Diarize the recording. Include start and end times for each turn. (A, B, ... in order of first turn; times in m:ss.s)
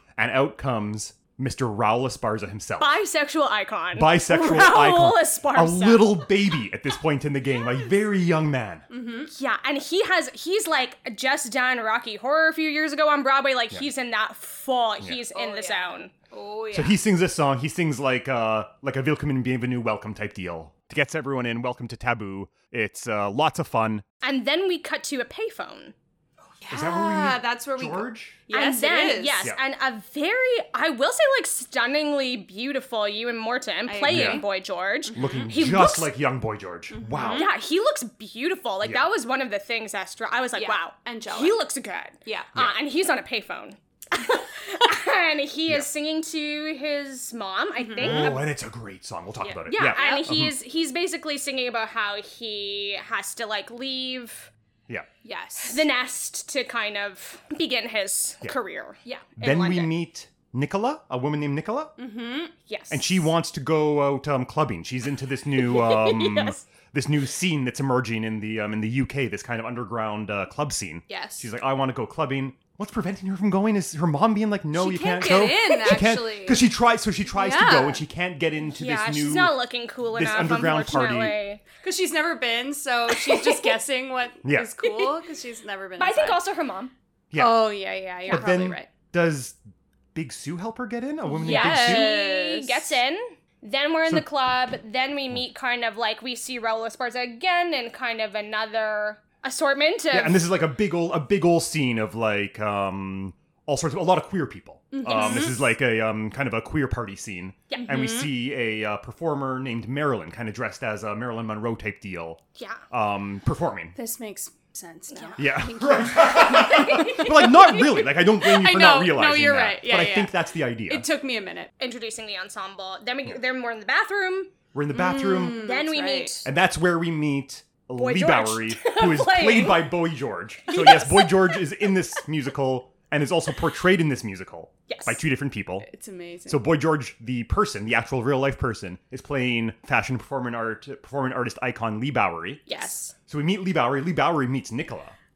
0:00.2-0:03.0 A
0:02.8-0:06.4 B
0:03.9-0:08.8 A
0:08.9-0:09.3 C
0:09.3-0:16.1 B
0:15.3-0:17.0 C
0:16.7-0:24.0 A
0:24.2-0:25.9 B
0:26.6-0:29.4 C
0:26.7-0:28.4 A
0:28.5-0:36.1 B
0:33.9-0:34.5 C
0:34.0-0:34.4 A
0:35.1-0:35.5 C
0:35.1-0:37.4 A
0:36.9-0:37.5 C
0:37.3-0:48.4 B
0:38.8-0:39.1 A
0:40.6-0:41.6 C
0:42.2-0:42.5 C
0:47.8-0:48.3 C
0:48.0-0:50.5 A
0:49.4-0:50.4 C
0:49.7-0:54.5 B
0:55.2-0:55.8 C
0:55.6-0:59.9 B
0:59.4-1:01.9 A
1:02.0-1:02.5 C
1:02.7-1:03.2 B
1:02.9-1:19.5 A
1:05.6-1:06.6 B
1:11.1-1:11.5 C
1:14.7-1:16.6 C
1:17.4-1:18.0 C
1:18.6-1:21.6 B
1:20.1-1:21.4 A
1:21.8-1:26.4 C
1:23.1-1:23.7 B
1:24.4-1:24.7 A
1:24.8-1:25.1 B
1:26.0-1:26.9 B
1:27.3-1:29.6 A
1:27.3-1:28.9 C
1:30.1-1:32.1 A
1:31.3-1:33.0 C
1:31.4-1:40.4 B
1:40.1-1:52.4 A
1:44.9-1:45.6 C
1:45.0-1:45.5 B
1:47.8-1:48.3 C
1:52.9-1:53.9 A
1:53.9-2:01.7 C
1:55.1-1:55.4 B
1:55.4-2:01.0 A
1:56.4-1:57.5 B
2:01.8-2:04.6 B
2:04.7-2:05.6 A
2:04.9-2:06.3 C
2:05.5-2:06.5 B
2:06.4-2:15.9 A
2:08.0-2:09.9 B
2:10.7-2:11.6 B
2:14.9-2:15.2 B
2:15.8-2:16.6 C
2:16.5-2:22.6 A
2:22.7-2:23.1 B
2:22.7-2:22.9 C
2:23.3-2:25.2 A